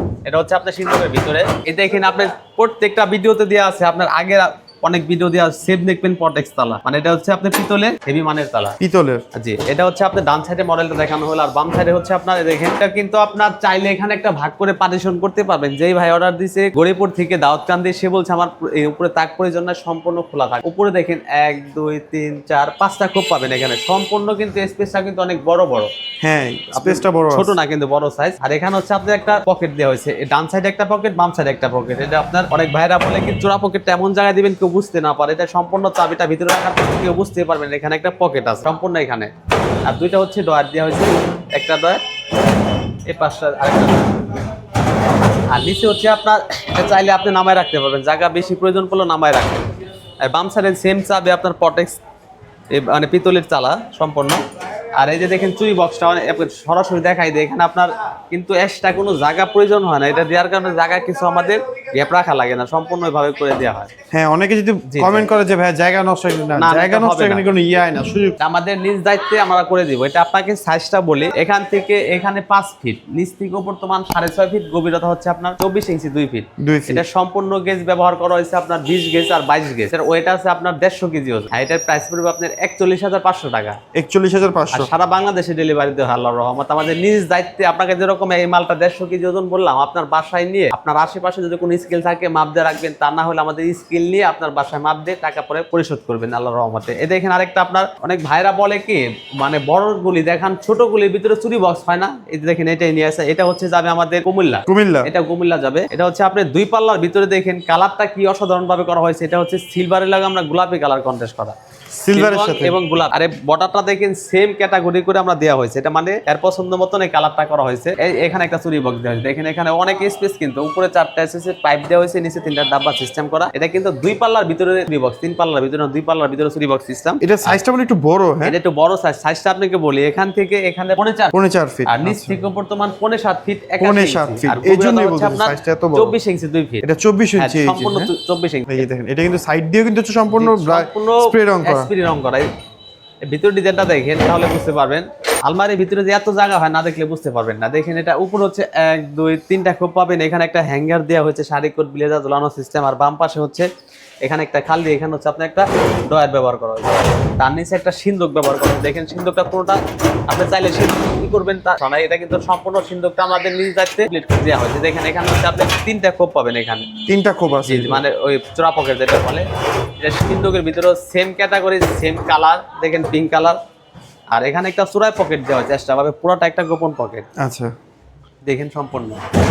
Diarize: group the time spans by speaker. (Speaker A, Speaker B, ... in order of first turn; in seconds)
Speaker A: 0.2-8.8, 9.3-25.9, 26.7-39.3, 39.9-42.0, 43.1-44.3, 45.5-49.7, 50.2-52.0, 52.7-54.4, 55.0-63.9, 64.9-65.3, 66.5-67.5, 68.4-83.8, 84.7-111.5, 112.1-127.6, 128.4-131.3, 131.9-136.8, 137.4-138.8, 140.3-142.5, 143.3-153.7, 154.2-166.9, 167.7-169.5, 170.0-173.6, 174.3-177.3, 178.5-179.2
Speaker B: 8.8-9.2, 26.2-27.5, 64.1-68.4, 76.6-77.0, 83.9-84.9, 104.7-105.1, 112.0-112.8, 127.2-128.5, 131.3-132.3, 133.8-136.1, 136.8-138.1, 138.7-141.9, 167.1-168.0, 177.4-177.7